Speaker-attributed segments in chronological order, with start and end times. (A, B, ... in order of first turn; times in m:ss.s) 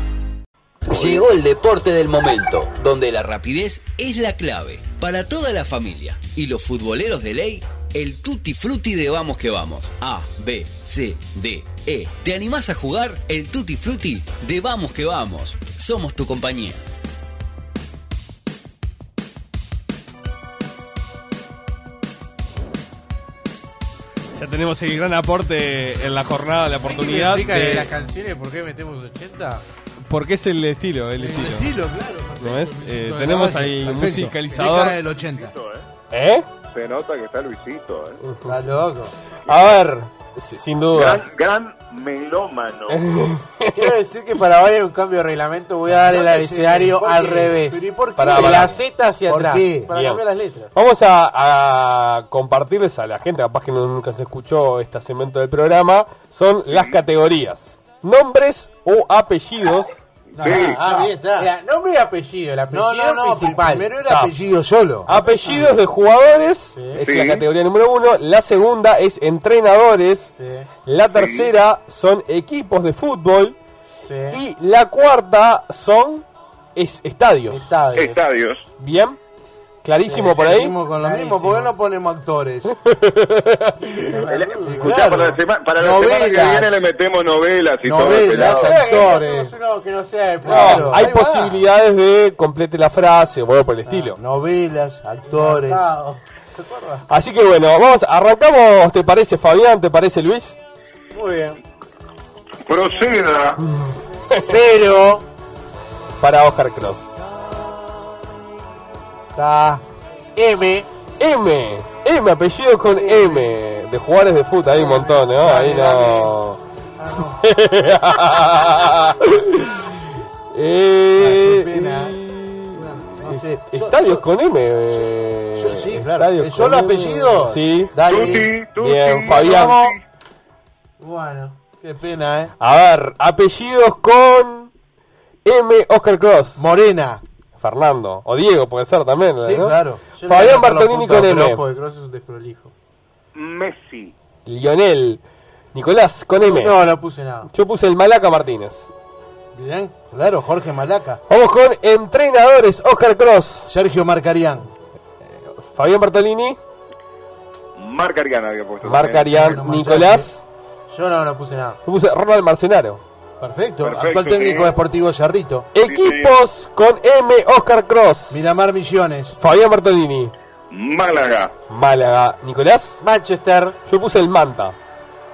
0:00.9-0:16.8 A
0:24.4-0:27.9 B
0:26.8-0:29.6 C
0:30.1-0:31.7 B
0:31.2-0:35.5 D
0:32.4-0:35.0 B
0:35.2-0:35.9 E
0:36.1-0:36.5 B
0:36.7-0:38.2 E
0:38.2-0:38.6 B
0:38.4-0:39.1 D
0:39.5-0:39.8 E
0:39.5-0:41.2 B
0:40.9-0:43.0 E
0:42.9-0:43.8 B
0:43.7-0:50.7 C
0:45.9-0:49.9 D
0:48.2-0:48.8 B
0:49.9-1:00.0 B
0:56.7-0:57.0 E
1:00.4-1:00.8 E
1:00.4-1:03.9 C
1:00.4-1:01.5 D
1:02.7-1:05.1 D
1:05.0-1:10.3 B
1:05.2-1:05.7 C
1:06.8-1:07.0 C
1:07.0-1:07.5 E
1:10.4-1:10.7 C
1:10.8-1:13.6 B
1:11.1-1:11.5 E
1:14.0-1:14.4 C
1:14.3-1:16.2 B
1:16.8-1:17.9 B
1:17.5-1:18.2 C
1:18.0-1:18.6 E
1:18.8-1:19.2 B
1:19.8-1:20.8 B
1:20.1-1:22.8 D
1:21.0-1:21.7 C
1:22.8-1:24.2 B
1:24.0-1:25.1 C
1:24.3-1:28.8 E
1:24.6-1:26.8 D
1:27.8-1:29.5 D
1:28.3-1:31.1 C
1:30.4-1:31.6 D
1:30.4-1:34.2 B
1:33.9-1:35.9 D
1:35.3-1:37.1 C
1:37.1-1:40.6 B
1:41.1-1:41.6 C
1:42.7-1:43.6 E
1:44.3-1:45.2 C
1:46.2-1:47.2 B
1:49.4-1:49.8 C
1:50.4-1:50.9 C
1:51.2-1:56.6 B
1:52.9-1:53.5 C
1:54.7-1:56.3 C
1:57.0-1:57.4 C
1:57.4-2:08.0 B
2:01.2-2:02.2 D
2:02.7-2:04.3 D
2:05.6-2:08.6 D
2:08.1-2:10.0 E
2:08.8-2:09.9 B
2:09.5-2:09.9 C
2:11.0-2:11.6 C
2:11.8-2:12.5 D
2:12.6-2:14.7 B
2:15.4-2:16.6 B
2:16.6-2:17.2 D
2:17.6-2:21.6 B
2:19.4-2:20.0 D
2:20.2-2:22.7 C
2:23.4-2:24.1 E
2:24.5-2:25.2 B
2:25.7-2:26.8 B
2:26.4-2:27.5 C
2:27.5-2:28.9 B
2:29.5-2:31.2 D
2:31.3-2:33.7 B
2:33.6-2:34.7 D
2:35.2-2:36.6 B
2:37.8-2:39.4 E
2:38.8-2:40.4 B
2:39.4-2:40.3 D
2:40.9-2:41.8 C
2:41.8-2:43.0 B
2:43.4-2:45.7 D
2:43.8-2:44.8 E
2:45.7-2:48.5 B
2:45.8-2:46.4 E
2:48.3-2:49.4 D
2:49.4-2:50.3 B
2:50.7-2:51.5 E
2:51.7-2:53.0 B
2:53.0-2:53.8 C
2:53.9-2:54.8 B